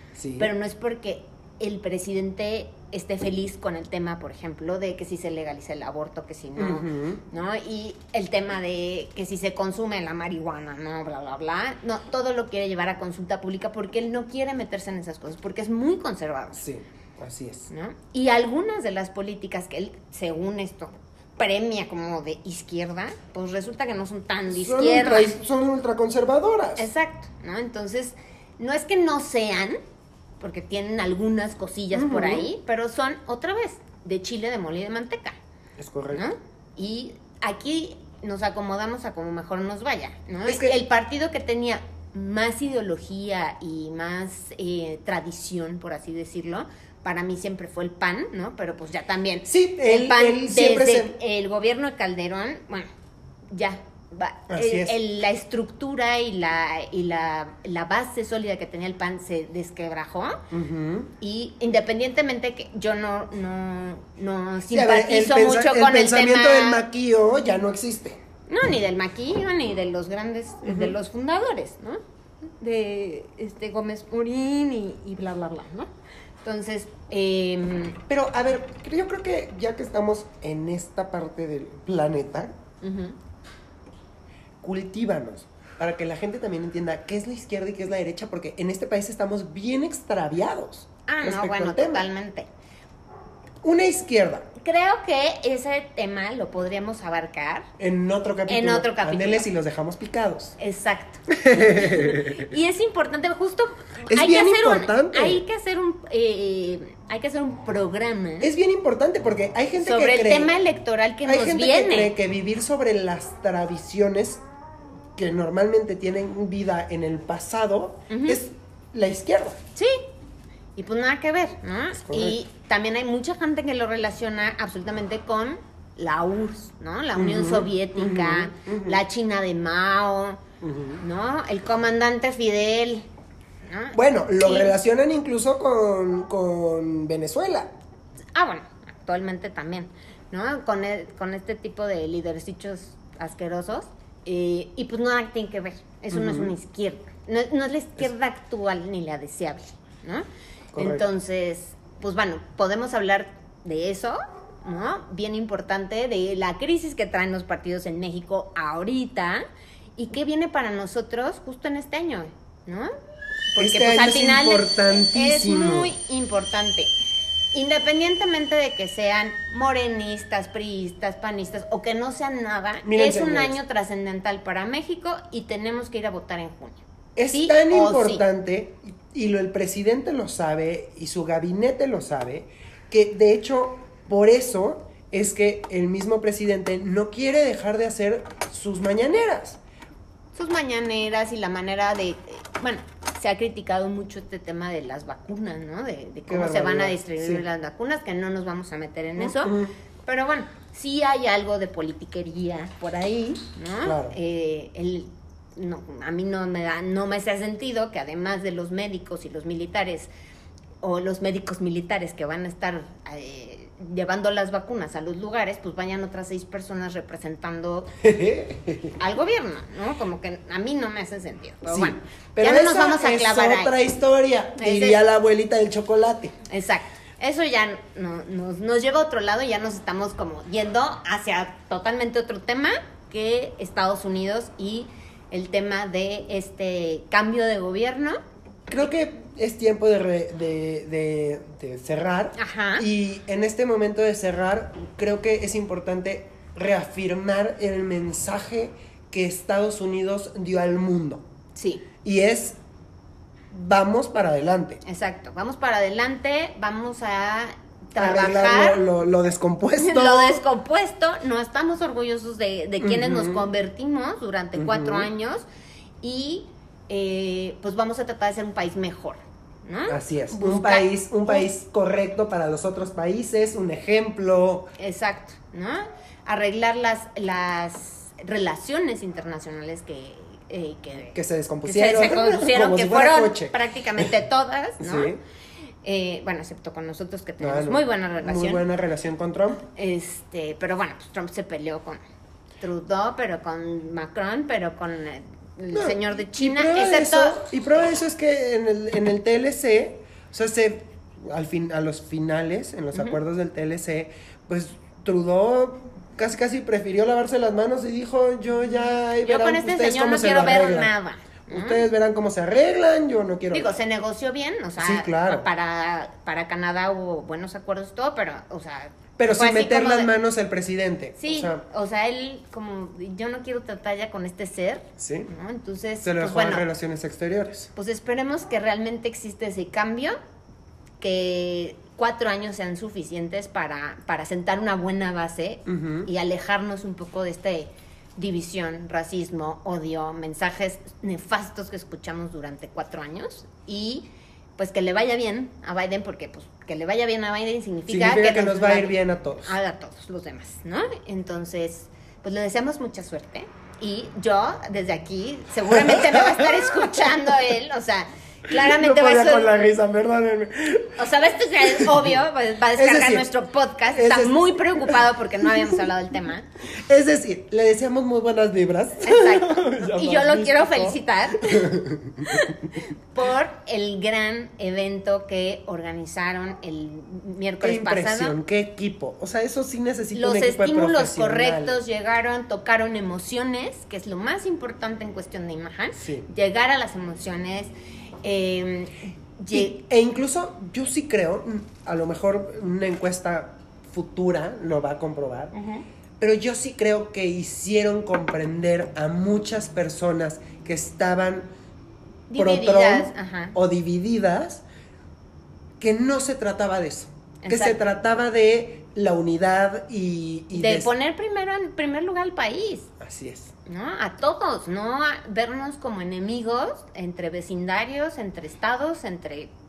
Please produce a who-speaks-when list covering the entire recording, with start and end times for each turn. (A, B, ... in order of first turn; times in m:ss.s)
0:00.2-0:00.5 A
0:00.4-0:16.7 B
0:06.6-0:07.2 A
0:16.6-0:17.7 A
0:17.7-0:25.4 B
0:24.5-0:26.9 A
0:26.8-0:29.8 B
0:30.4-0:35.4 B
0:31.9-0:32.5 A
0:35.8-0:36.2 A
0:36.1-0:52.9 B
0:40.5-0:40.8 A
0:49.5-0:51.1 A
0:53.5-1:00.4 B
0:54.5-0:55.0 A
1:00.5-1:01.1 A
1:01.2-1:06.8 B
1:04.7-1:08.2 A
1:08.5-1:15.9 B
1:10.6-1:11.0 A
1:16.4-1:18.0 B
1:18.1-1:22.5 A
1:22.8-1:23.2 B
1:24.6-1:32.1 A
1:31.1-1:32.5 B
1:33.6-1:34.5 A
1:34.6-1:37.7 B
1:37.8-1:40.6 A
1:38.5-1:39.5 B
1:40.6-1:48.5 B
1:41.3-1:42.5 A
1:44.1-1:45.4 A
1:48.4-1:50.5 A
1:49.8-1:52.2 B
1:51.3-1:54.4 A
1:55.2-1:59.6 A
1:58.1-1:58.4 B
1:59.8-2:00.0 B
2:00.8-2:10.4 B
2:02.0-2:02.4 A
2:07.2-2:09.0 A
2:10.6-2:11.0 A
2:11.0-2:13.1 B
2:13.7-2:14.8 B
2:13.9-2:17.7 A
2:18.4-2:30.2 B
2:26.1-2:26.5 A
2:30.7-2:31.0 A
2:30.8-2:39.4 B
2:40.0-2:42.9 B
2:43.5-2:46.9 B
2:43.6-2:45.9 A
2:47.5-2:58.2 B
2:52.8-2:53.6 A
2:57.2-3:09.6 A
3:10.4-3:30.1 B
3:16.3-3:17.4 A
3:19.2-3:19.7 A
3:23.8-3:24.2 A
3:30.8-3:37.9 B
3:38.0-3:38.9 A
3:39.0-3:43.7 B
3:41.7-3:46.4 A
3:44.6-3:45.0 B
3:46.5-3:58.2 B
3:58.7-4:11.2 A
4:02.4-4:02.8 B
4:11.6-4:11.8 B
4:12.0-4:12.6 A
4:13.5-4:14.8 A
4:14.8-4:18.8 B
4:18.0-4:20.4 A
4:19.8-4:25.5 B
4:22.8-4:23.4 A
4:24.6-4:25.1 A
4:26.0-4:31.5 B
4:29.9-4:34.7 A
4:34.8-4:45.2 B
4:41.1-4:44.1 A
4:44.8-4:45.2 A
4:45.8-4:48.6 B
4:47.4-4:49.7 A
4:49.7-4:52.0 B
4:52.6-4:57.4 B
4:55.7-5:10.9 A
5:09.2-5:11.9 B
5:11.5-5:13.8 A
5:13.5-5:20.1 B
5:14.8-5:15.5 A
5:19.2-5:21.6 A
5:21.2-5:26.7 B
5:25.0-5:25.3 A
5:26.0-5:27.7 A
5:27.8-5:30.2 B
5:31.0-5:59.6 B
5:35.7-5:36.1 A
5:47.9-5:49.6 A
5:55.7-5:57.1 A
5:58.5-6:01.0 A
6:01.0-6:06.4 B
6:01.7-6:02.1 A
6:02.8-6:03.3 A
6:03.9-6:05.8 A
6:06.9-6:12.7 A
6:09.0-6:18.4 B
6:17.6-6:21.8 A
6:20.1-6:27.7 B
6:26.0-6:26.2 A
6:28.2-6:29.8 B
6:29.5-6:35.5 A
6:35.5-6:35.8 B
6:36.2-6:41.5 A
6:42.3-6:43.6 B
6:42.3-6:44.6 A
6:45.8-6:50.9 A
6:47.4-6:47.8 B
6:50.5-6:52.9 B
6:53.0-6:53.5 A
6:53.7-6:59.5 B